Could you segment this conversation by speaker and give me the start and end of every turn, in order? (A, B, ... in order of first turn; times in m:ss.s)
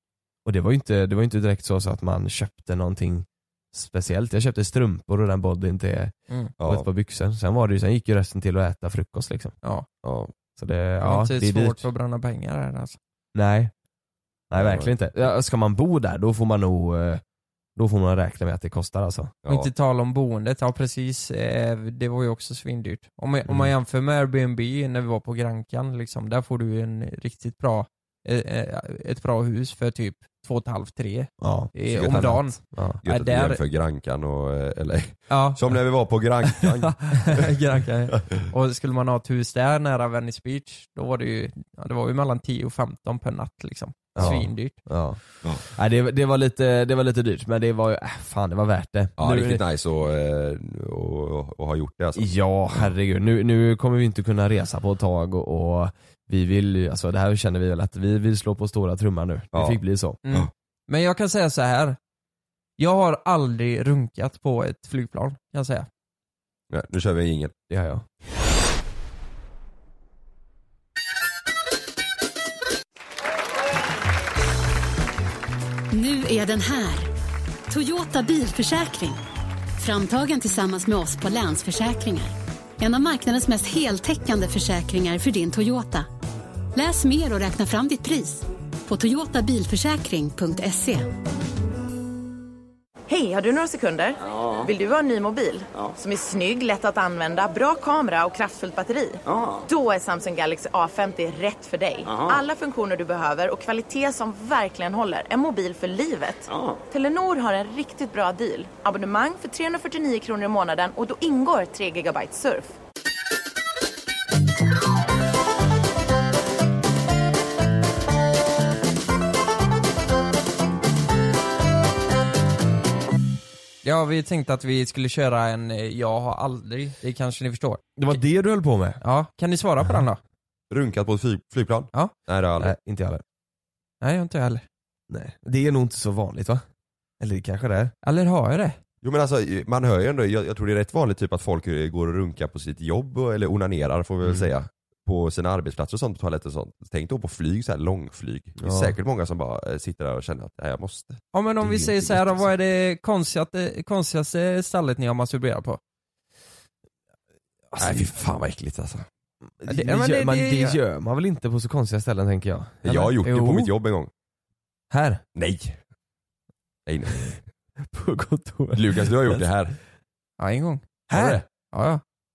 0:00.4-0:09.5 A
0:06.6-0:06.9 B
0:10.0-0:10.3 B
0:10.6-0:11.8 A
0:11.0-0:13.0 C
0:13.3-0:13.7 A
0:14.5-0:17.2 A
0:14.6-0:14.9 B
0:17.8-0:19.3 A
0:19.4-0:19.7 B
0:19.5-0:33.6 C
0:31.4-0:33.0 A
0:31.9-0:32.4 B
0:33.0-0:37.6 B
0:35.3-0:35.6 C
0:37.0-0:44.8 C
0:44.2-0:49.6 A
0:49.2-0:52.9 B
0:52.2-1:00.2 A
0:59.5-0:59.8 B
1:00.2-1:02.0 C
1:02.8-1:05.9 C
1:06.7-1:07.5 B
1:07.7-1:08.0 A
1:15.9-1:17.1 D
1:17.7-1:19.2 D
1:19.8-1:26.1 D
1:26.8-1:31.1 D
1:33.1-1:52.7 E
2:03.8-2:08.2 C
2:08.0-2:09.0 A
2:09.0-2:10.2 C
2:10.7-2:12.7 B
2:12.6-2:13.2 A
2:14.0-2:14.6 C
2:15.1-2:16.6 A
2:17.2-2:17.9 A
2:18.0-2:18.8 C
2:19.0-2:32.5 B
2:28.6-2:29.0 A
2:31.3-2:35.8 C
2:37.7-2:38.1 A
2:37.8-2:39.1 B
2:39.6-2:43.7 A
2:39.7-2:40.8 C
2:42.8-2:44.1 B
2:44.9-2:45.2 A
2:45.4-2:45.8 B
2:46.9-2:47.4 B
2:47.9-2:49.5 A
2:48.7-2:49.8 B
2:50.4-2:51.0 C
2:51.1-2:51.4 A
2:51.7-2:52.0 C